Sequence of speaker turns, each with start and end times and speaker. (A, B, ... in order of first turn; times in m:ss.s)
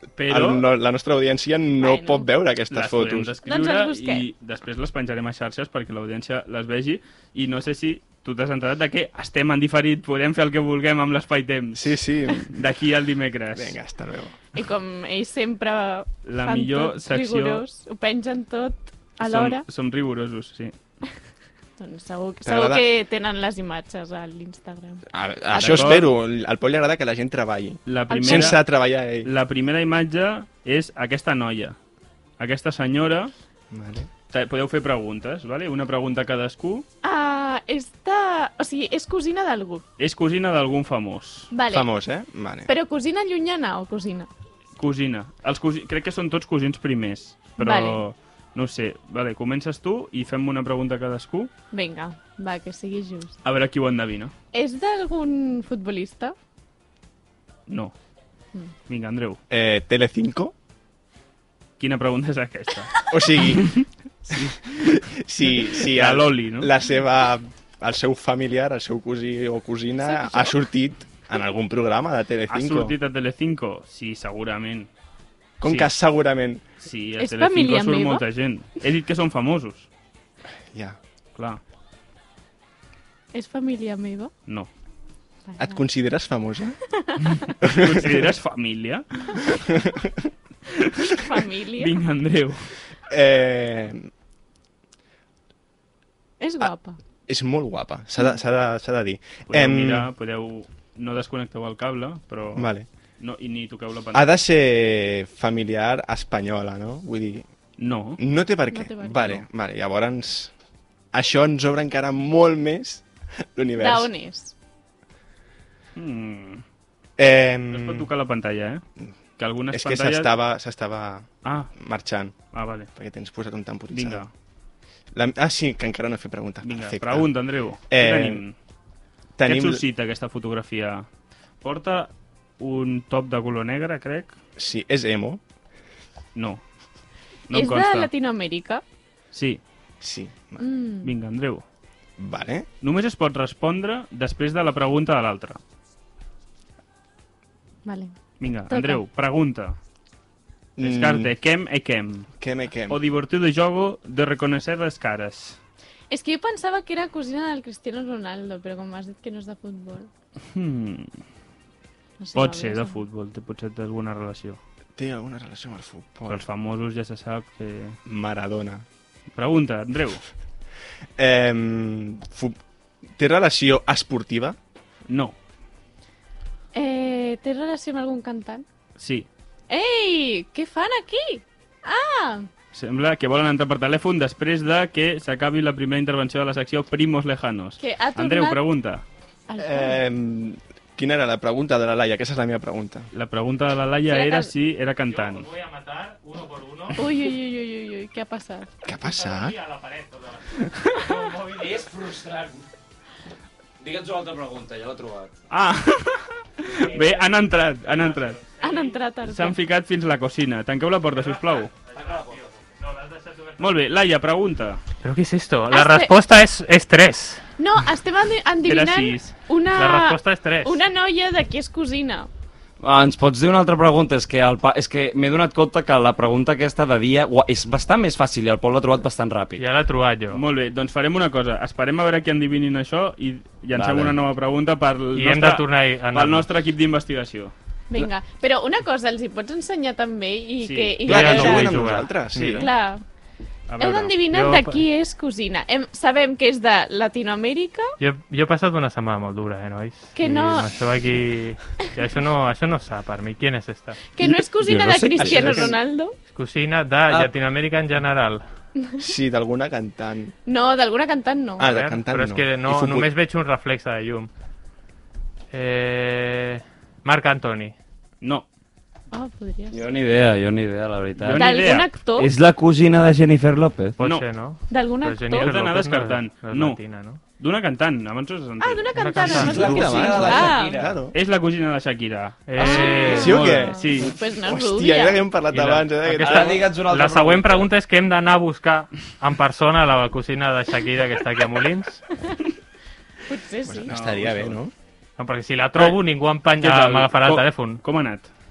0:00.2-0:00.7 A
0:00.3-0:03.3 B
0:01.8-0:02.3 C
0:02.7-0:11.9 A
0:03.4-0:04.3 C
0:11.7-0:12.5 B
0:12.4-0:13.8 A
0:13.6-0:14.4 B
0:14.5-0:19.6 C
0:16.2-0:17.6 A
0:19.2-0:20.7 A
0:21.8-0:25.9 C
0:22.4-0:22.8 B
0:25.1-0:29.3 B
0:25.6-0:26.1 A
0:27.9-0:28.6 A
0:28.1-0:28.6 C
0:29.2-0:31.8 A
0:32.4-0:33.3 A
0:33.7-0:34.1 B
0:34.3-0:36.9 A
0:37.0-0:39.8 C
0:40.0-0:41.5 A
0:41.5-0:41.9 C
0:41.7-0:42.7 B
0:42.7-0:44.3 C
0:44.8-0:51.5 A
0:47.6-0:48.0 C
0:51.7-0:53.4 C
0:53.4-0:54.3 A
0:54.5-0:56.4 C
0:57.7-0:58.0 A
0:58.9-0:59.4 A
0:59.5-1:00.6 B
1:01.8-1:05.0 A
1:03.1-1:13.0 B
1:05.7-1:06.7 A
1:10.0-1:10.6 C
1:12.5-1:14.9 A
1:15.6-1:16.6 B
1:15.6-1:15.9 A
1:16.8-1:19.9 A
1:17.2-1:18.3 C
1:20.7-1:21.0 B
1:21.4-1:21.6 A
1:23.3-1:24.3 C
1:25.5-1:25.8 C
1:25.6-1:26.8 B
1:27.0-1:27.4 C
1:27.4-1:29.5 A
1:27.6-1:28.3 B
1:29.7-1:30.2 B
1:31.1-1:32.0 C
1:31.8-1:32.7 A
1:33.1-1:34.1 B
1:36.4-1:37.0 C
1:37.3-1:40.1 B
1:39.5-1:44.3 A
1:42.6-1:42.9 B
1:44.1-1:47.5 B
1:47.8-1:48.2 A
1:48.2-1:50.5 B
1:48.7-1:49.4 C
1:51.1-1:54.1 B
1:53.8-1:54.6 C
1:56.0-1:56.6 A
1:57.2-1:58.1 B
1:57.7-1:58.8 A
1:59.4-2:00.3 A
1:59.7-2:02.4 B
2:01.4-2:01.7 A
2:02.5-2:02.9 A
2:03.0-2:04.2 B
2:03.9-2:04.3 A
2:05.1-2:07.3 B
2:06.6-2:08.5 A
2:07.9-2:08.4 B
2:09.4-2:09.8 B
2:09.4-2:11.1 A
2:11.6-2:14.4 A
2:14.6-2:15.4 B
2:16.4-2:16.6 A
2:17.5-2:18.1 A
2:17.5-2:18.8 C
2:19.3-2:19.6 A
2:20.0-2:20.6 B
2:20.6-2:21.1 C
2:21.0-2:21.6 A
2:22.2-2:22.7 B
2:22.8-2:25.6 A
2:27.8-2:28.2 C
2:28.4-2:29.8 A
2:28.7-2:29.0 C
2:30.8-2:31.3 B
2:30.8-2:32.3 A
2:32.4-2:33.0 B
2:32.9-2:35.6 A
2:36.1-2:40.1 C
2:40.5-2:41.1 A
2:42.2-2:43.0 C
2:42.3-2:44.6 A
2:45.0-2:46.4 B
2:46.3-2:48.0 A
2:48.1-2:48.8 B
2:49.3-2:50.2 A
2:51.2-2:52.6 B
2:53.1-2:54.6 B
2:55.1-2:55.4 A
2:56.7-2:58.7 C
2:59.0-2:59.3 A
2:59.7-3:02.5 C
3:02.7-3:09.0 A
3:07.8-3:08.6 C
3:09.5-3:10.0 C
3:09.6-3:13.1 B
3:13.1-3:15.5 A
3:14.1-3:14.5 C
3:15.0-3:17.0 D
3:17.0-3:18.7 C
3:18.8-3:19.6 B
3:18.9-3:22.0 D
3:21.7-3:22.6 E
3:23.8-3:25.3 E
3:25.5-3:28.4 A
3:26.9-3:27.2 D
3:28.0-3:29.0 D
3:28.6-3:29.6 C
3:29.2-3:31.7 A
3:31.2-3:33.7 D
3:33.6-3:34.8 A
3:35.0-3:37.5 D
3:35.7-3:36.2 C
3:37.6-3:42.3 C
3:38.7-3:39.4 A
3:39.7-3:40.8 D
3:42.8-3:49.6 E
3:49.6-3:50.4 D
3:50.3-3:57.5 A
3:53.7-3:54.2 E
3:55.1-3:56.5 D
3:57.9-4:01.9 C
4:00.6-4:01.6 A
4:01.1-4:02.7 B
4:01.1-4:02.7 D
4:02.5-4:03.0 C
4:03.7-4:04.2 A
4:03.8-4:07.9 C
4:04.2-4:04.8 D
4:08.0-4:14.1 D
4:10.2-4:10.7 C
4:10.3-4:10.6 E
4:14.1-4:16.2 C
4:14.2-4:15.8 E
4:15.2-4:15.7 B
4:16.3-4:18.5 D
4:17.1-4:17.3 E
4:19.0-4:20.3 B
4:20.5-4:21.7 C
4:21.6-4:23.1 B
4:21.6-4:24.3 D
4:25.5-4:27.8 D
4:28.2-4:28.5 A
4:29.1-4:29.8 C
4:29.7-4:34.0 E
4:31.2-4:32.0 A
4:31.3-4:32.3 C
4:34.0-4:37.2 D
4:34.0-4:34.3 A
4:34.7-4:35.6 C
4:35.3-4:36.8 A
4:37.4-4:38.9 A
4:38.6-4:40.8 C
4:38.9-4:40.4 D
4:39.3-4:41.0 E
4:39.5-4:41.1 B
4:41.1-4:44.2 A
4:42.5-4:43.7 D
4:42.6-4:45.3 C
4:43.0-4:46.8 B
4:45.5-4:45.9 A
4:45.9-4:52.0 D
4:46.2-4:47.7 E
4:53.3-4:53.9 C
4:53.7-4:54.7 B
4:53.9-4:54.6 A
4:55.2-4:57.8 D
4:56.6-4:58.3 A